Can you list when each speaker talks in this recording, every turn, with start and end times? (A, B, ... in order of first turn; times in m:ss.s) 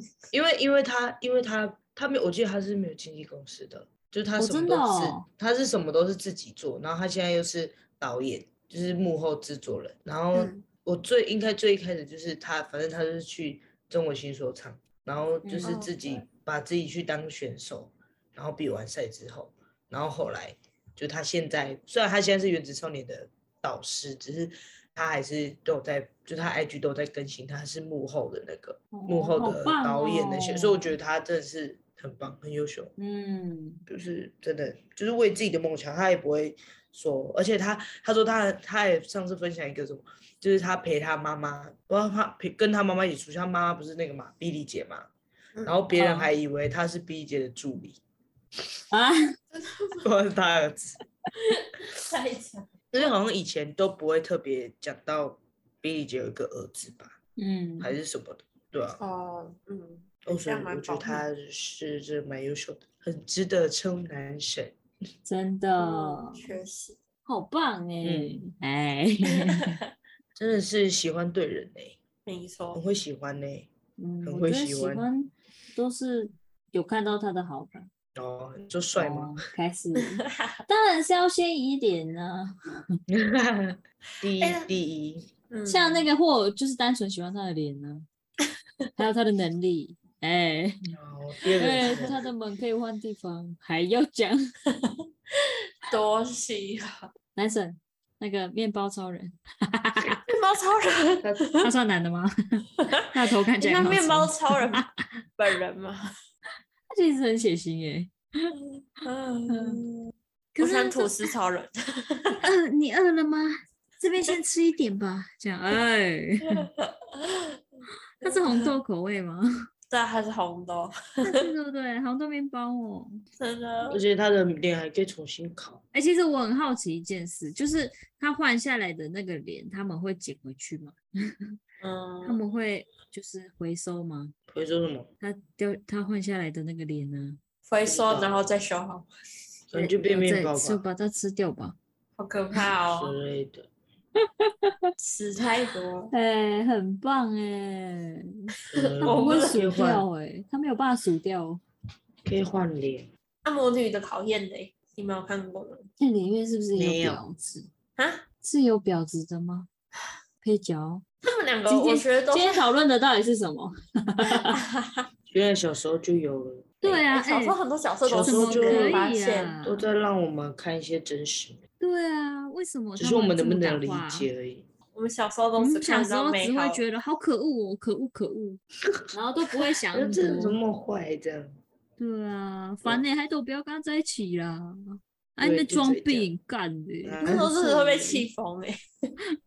0:00.3-0:32.9 A
0:04.4-0:05.2 B
0:10.3-0:10.6 C
0:15.4-0:15.8 B
0:15.6-0:16.2 C
0:28.9-0:31.0 B
0:33.0-0:33.8 B
0:33.9-0:45.1 A
0:45.5-0:45.8 C
0:45.6-0:48.0 A
0:45.9-0:46.3 B
0:48.9-0:49.2 B
0:49.5-0:50.1 C
0:50.0-0:51.0 A
0:51.4-0:53.1 C
0:52.9-0:57.2 A
0:57.4-0:58.0 B
0:57.8-0:59.0 A
0:59.0-1:01.2 C
1:00.2-1:04.8 A
1:05.2-1:06.4 B
1:05.8-1:07.0 C
1:07.2-1:09.8 B
1:08.0-1:08.4 A
1:10.4-1:12.0 A
1:12.2-1:12.8 C
1:12.7-1:13.7 A
1:14.0-1:17.9 B
1:14.2-1:15.1 A
1:18.1-1:19.4 A
1:19.0-1:22.5 B
1:20.0-1:20.6 C
1:23.1-1:25.3 A
1:24.4-1:24.7 C
1:25.5-1:26.1 C
1:25.7-1:28.0 B
1:29.0-1:31.0 B
1:30.9-1:32.2 A
1:31.6-1:34.4 B
1:31.8-1:32.2 C
1:34.7-1:37.1 C
1:37.3-1:40.2 B
1:40.3-1:41.7 C
1:41.6-1:44.8 B
1:43.6-1:46.0 C
1:46.9-1:48.5 B
1:48.8-1:52.4 C
1:49.5-1:49.8 B
1:50.5-1:51.3 B
1:52.4-1:56.7 B
1:56.4-1:57.6 C
1:58.2-1:59.5 B
1:58.2-1:58.8 C
1:59.9-2:01.5 C
2:01.2-2:03.2 B
2:03.4-2:04.0 C
2:03.9-2:05.8 A
2:05.9-2:11.0 B
2:11.8-2:12.4 C
2:12.2-2:14.3 B
2:14.5-2:15.1 A
2:15.2-2:17.4 B
2:17.6-2:19.1 C
2:17.8-2:18.5 A
2:19.7-2:20.8 A
2:20.0-2:21.8 B
2:22.2-2:23.2 C
2:22.9-2:23.7 A
2:24.4-2:24.8 B
2:25.0-2:26.1 C
2:26.1-2:28.5 B
2:28.7-2:30.1 A
2:28.8-2:29.6 C
2:29.0-2:31.6 B
2:32.2-2:33.1 A
2:33.4-2:35.9 C
2:36.0-2:37.7 B
2:36.7-2:37.2 A
2:38.0-2:38.2 C
2:38.4-2:39.7 B
2:40.4-2:41.0 B
2:41.2-2:42.7 C
2:41.7-2:44.6 B
2:44.5-2:45.1 C
2:45.3-2:47.0 A
2:46.8-2:47.6 B
2:47.1-2:49.5 C
2:48.0-2:49.0 A
2:48.2-2:49.8 B
2:49.6-2:51.6 A
2:51.8-2:54.3 B
2:53.0-2:54.6 A
2:54.9-2:56.8 C
2:55.6-2:58.6 B
2:59.1-3:00.6 B
2:59.9-3:01.6 A
3:02.0-3:08.2 B
3:05.4-3:06.3 A
3:07.0-3:07.6 A
3:07.2-3:08.8 C